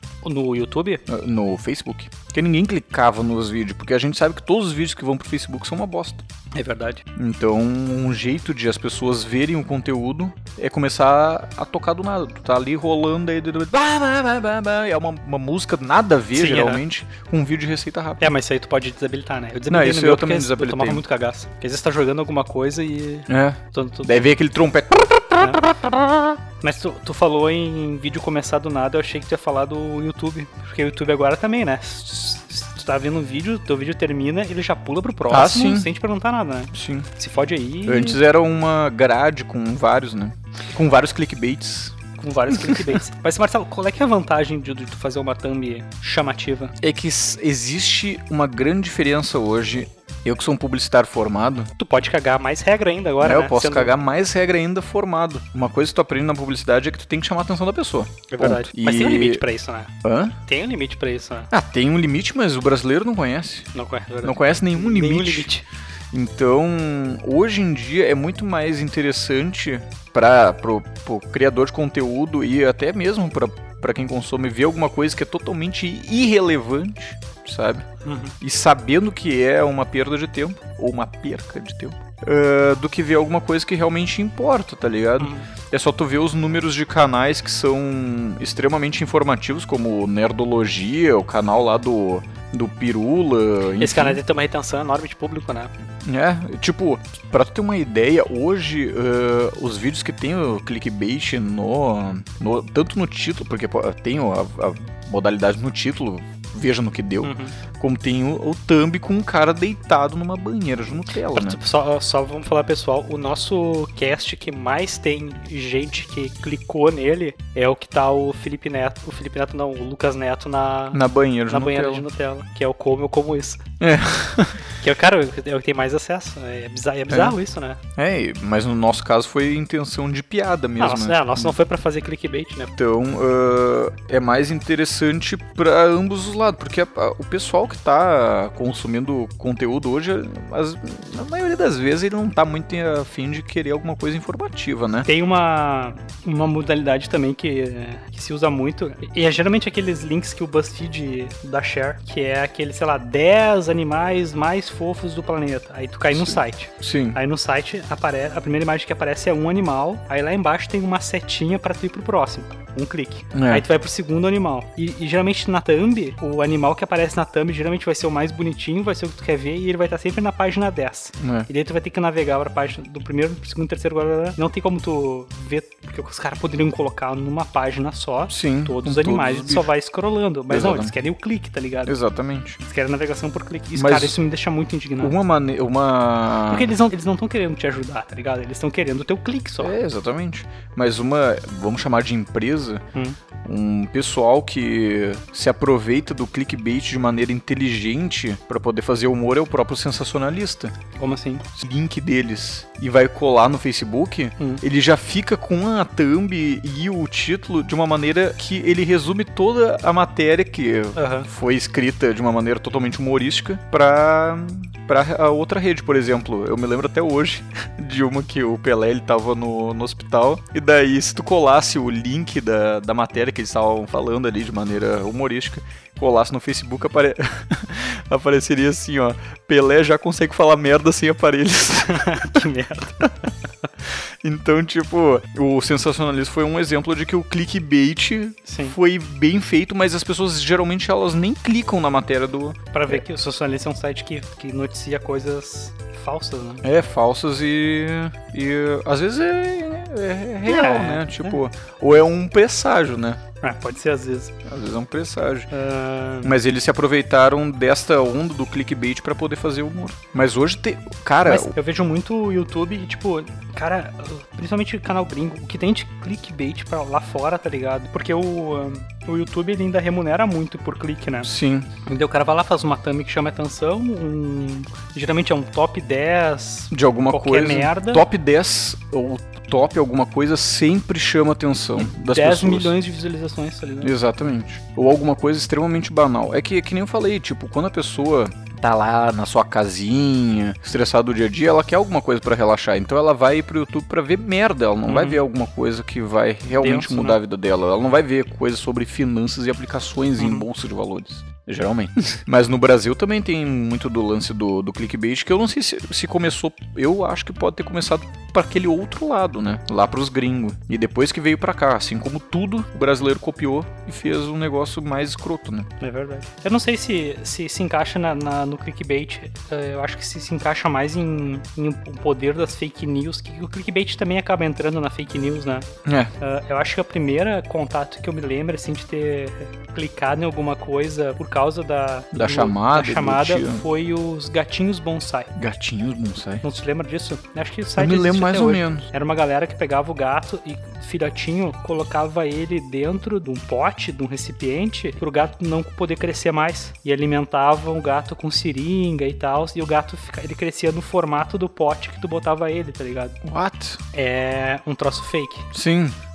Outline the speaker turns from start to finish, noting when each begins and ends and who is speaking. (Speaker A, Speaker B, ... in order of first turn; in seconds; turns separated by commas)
Speaker A: 0.2-1.0, Speaker B: 1.1-6.2, Speaker A: 6.5-7.0, Speaker B: 7.2-18.3, Speaker A: 16.3-16.8, Speaker A: 18.2-24.3, Speaker B: 19.7-21.0, Speaker B: 23.3-26.4, Speaker A: 26.6-38.2, Speaker B: 35.3-35.9, Speaker B: 36.7-37.1, Speaker B: 37.9-42.0, Speaker A: 42.2-46.8, Speaker B: 42.5-43.0, Speaker B: 46.8-51.7, Speaker A: 51.8-53.9, Speaker B: 53.2-59.4, Speaker A: 58.3-59.9, Speaker B: 60.0-60.4, Speaker A: 60.5-61.5, Speaker B: 61.5-63.7, Speaker A: 63.7-65.7, Speaker B: 64.2-65.5, Speaker B: 66.1-77.9, Speaker A: 78.0-78.4, Speaker B: 78.4-94.2, Speaker A: 85.2-85.5, Speaker A: 93.8-95.7, Speaker B: 96.0-111.6, Speaker A: 107.2-107.6, Speaker A: 111.3-123.6, Speaker B: 120.9-122.1, Speaker B: 123.8-124.7, Speaker A: 124.8-127.8, Speaker B: 127.1-127.4, Speaker B: 128.0-131.6, Speaker A: 130.8-132.7, Speaker B: 132.8-145.1, Speaker A: 145.1-181.9, Speaker B: 156.1-157.2, Speaker B: 163.3-163.7, Speaker B: 171.2-171.5, Speaker B: 178.3-179.7, Speaker B: 180.5-180.9, Speaker B: 181.9-182.6, Speaker A: 182.6-185.2, Speaker B: 183.8-184.2, Speaker B: 185.0-186.7, Speaker A: 186.5-189.8, Speaker B: 189.6-192.8, Speaker B: 193.4-200.7, Speaker A: 201.0-201.4, Speaker B: 201.5-232.5, Speaker A: 204.4-204.6, Speaker A: 210.9-211.3, Speaker A: 231.9-233.1, Speaker B: 234.2-243.0, Speaker A: 238.5-238.8, Speaker A: 242.7-246.6, Speaker B: 246.6-253.2, Speaker A: 250.5-251.4, Speaker A: 253.4-254.3, Speaker B: 254.5-255.5, Speaker A: 255.5-256.4, Speaker B: 256.2-261.5, Speaker A: 261.3-271.3, Speaker B: 271.2-271.7, Speaker A: 271.9-278.1, Speaker B: 276.7-282.8, Speaker A: 281.8-284.0, Speaker B: 283.8-315.7, Speaker A: 294.9-295.2, Speaker A: 296.5-297.2, Speaker A: 300.2-300.5, Speaker A: 315.8-325.7, Speaker B: 325.9-326.1, Speaker A: 326.2-335.3, Speaker B: 332.1-333.6, Speaker B: 335.4-336.4, Speaker A: 336.4-353.2, Speaker B: 337.8-338.9, Speaker B: 353.2-353.8, Speaker A: 353.9-355.5, Speaker B: 355.5-356.0